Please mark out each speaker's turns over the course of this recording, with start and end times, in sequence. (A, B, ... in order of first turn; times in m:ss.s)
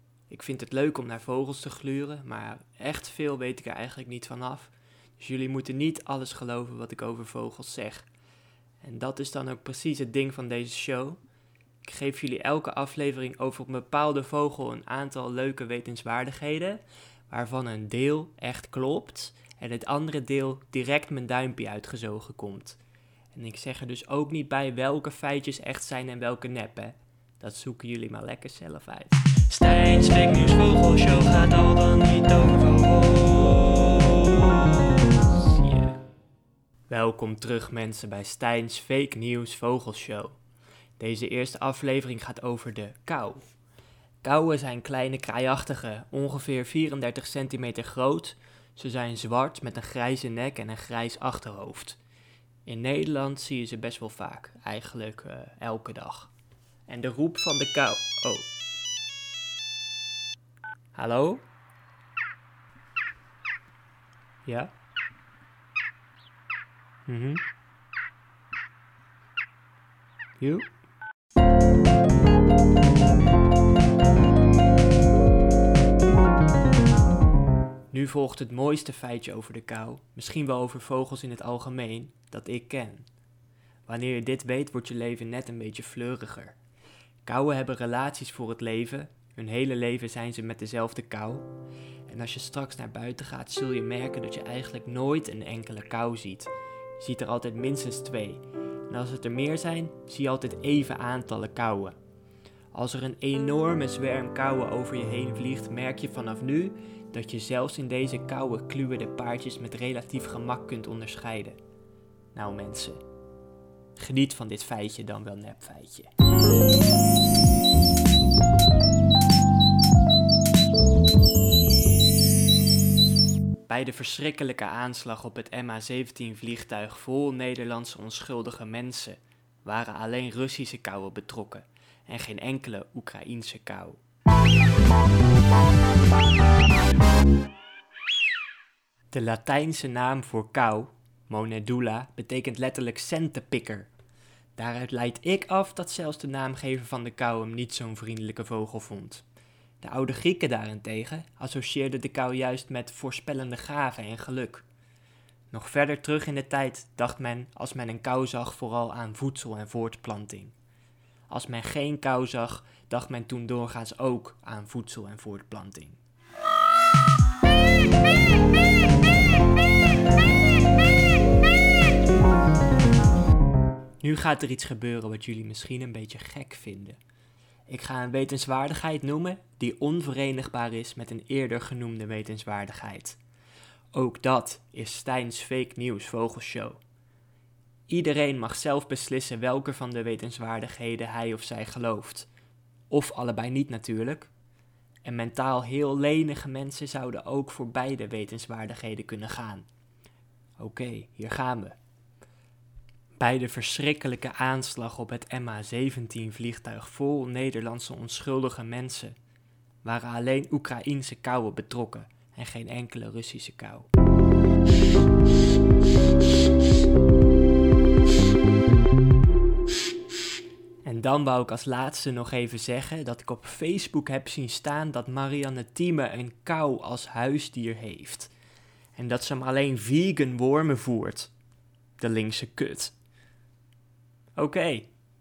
0:00.3-0:08.1 A
0:08.8-0:11.2 A
0:11.8-0:22.8 A
0:23.3-0:36.0 A
0:36.9-0:40.4 A
0:41.0-0:43.5 A
0:44.2-0:52.0 A
0:52.6-0:56.3 A
0:56.9-0:58.5 A
1:01.0-1:01.4 A
1:04.4-1:04.7 A
1:07.1-1:07.4 A
1:10.4-1:10.7 A
1:17.9-1:23.1 A
1:23.9-1:26.6 A
1:27.2-1:31.5 A
1:32.1-1:42.0 A
1:42.7-1:51.6 A
1:52.3-1:53.0 A
1:54.0-1:56.1 A
2:03.7-2:14.0 A
2:19.1-2:23.9 A
2:24.6-2:29.2 A
2:29.8-2:34.7 A
2:35.5-2:40.6 A
2:41.3-2:46.0 A
2:54.0-2:57.0 A
2:57.7-3:03.2 A
3:03.9-3:06.8 A
3:07.9-3:12.3 A
3:12.9-3:14.3 A
3:15.0-3:19.7 A
3:20.6-3:21.8 A
3:23.2-3:29.2 A
3:29.8-3:33.9 A
3:40.8-3:48.3 A
3:49.0-3:51.3 A
3:52.0-3:53.0 A
3:54.4-3:54.9 A